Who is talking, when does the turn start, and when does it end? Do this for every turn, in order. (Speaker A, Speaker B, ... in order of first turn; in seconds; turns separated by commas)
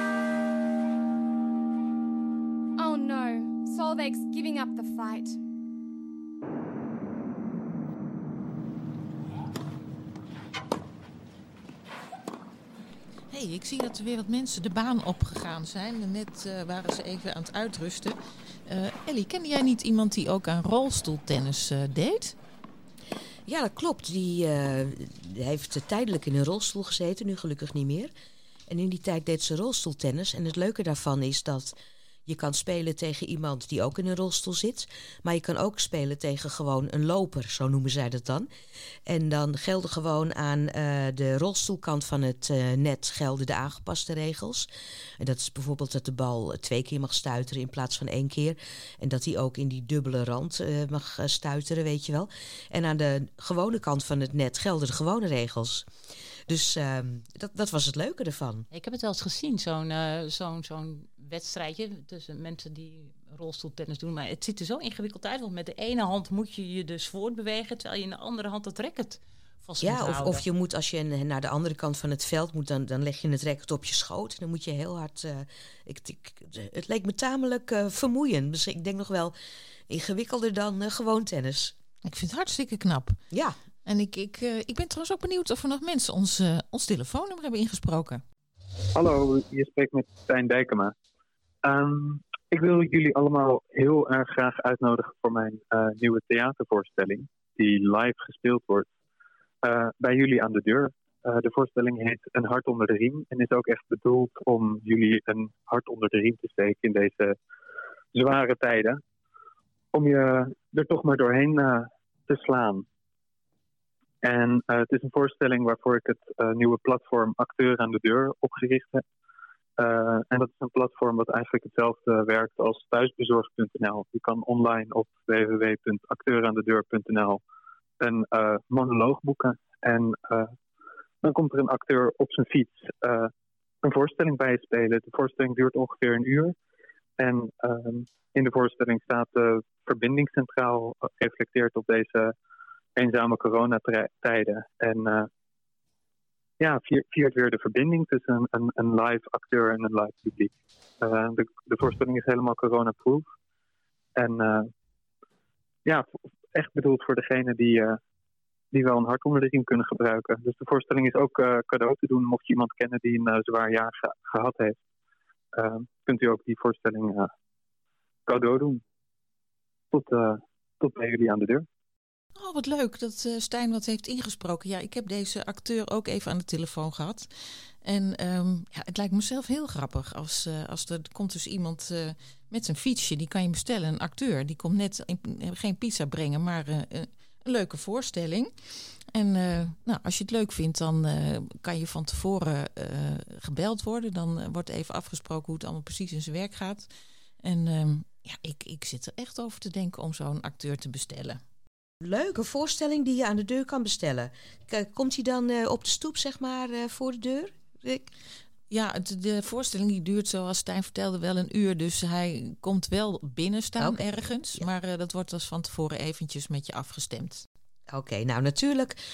Speaker A: 2.8-5.4, Speaker B: 13.3-22.3, Speaker C: 23.5-28.1, Speaker C: 28.7-31.7, Speaker C: 32.3-38.5, Speaker C: 39.1-44.7, Speaker C: 45.2-55.9, Speaker C: 56.5-58.6, Speaker D: 58.7-70.4, Speaker C: 69.8-79.3, Speaker C: 79.9-81.8, Speaker B: 82.0-83.2, Speaker B: 83.8-88.2, Speaker E: 89.0-90.9, Speaker E: 91.6-98.9, Speaker E: 99.6-107.3, Speaker E: 108.1-109.0, Speaker E: 109.9-112.8, Speaker E: 114.2-119.0, Speaker E: 119.8-127.4, Speaker E: 128.0-130.5, Speaker E: 131.2-133.3, Speaker E: 133.8-136.5, Speaker E: 137.2-142.3, Speaker E: 143.0-145.3, Speaker E: 146.6-153.3, Speaker E: 154.2-154.7, Speaker E: 155.8-158.0, Speaker E: 158.7-164.8, Speaker E: 165.5-167.3, Speaker E: 168.3-168.8, Speaker E: 169.9-171.6, Speaker B: 172.3-177.3, Speaker B: 177.8-188.5, Speaker B: 189.1-196.9, Speaker B: 197.4-201.4, Speaker C: 202.0-208.1, Speaker B: 208.7-217.4, Speaker C: 213.8-214.0, Speaker C: 217.9-219.0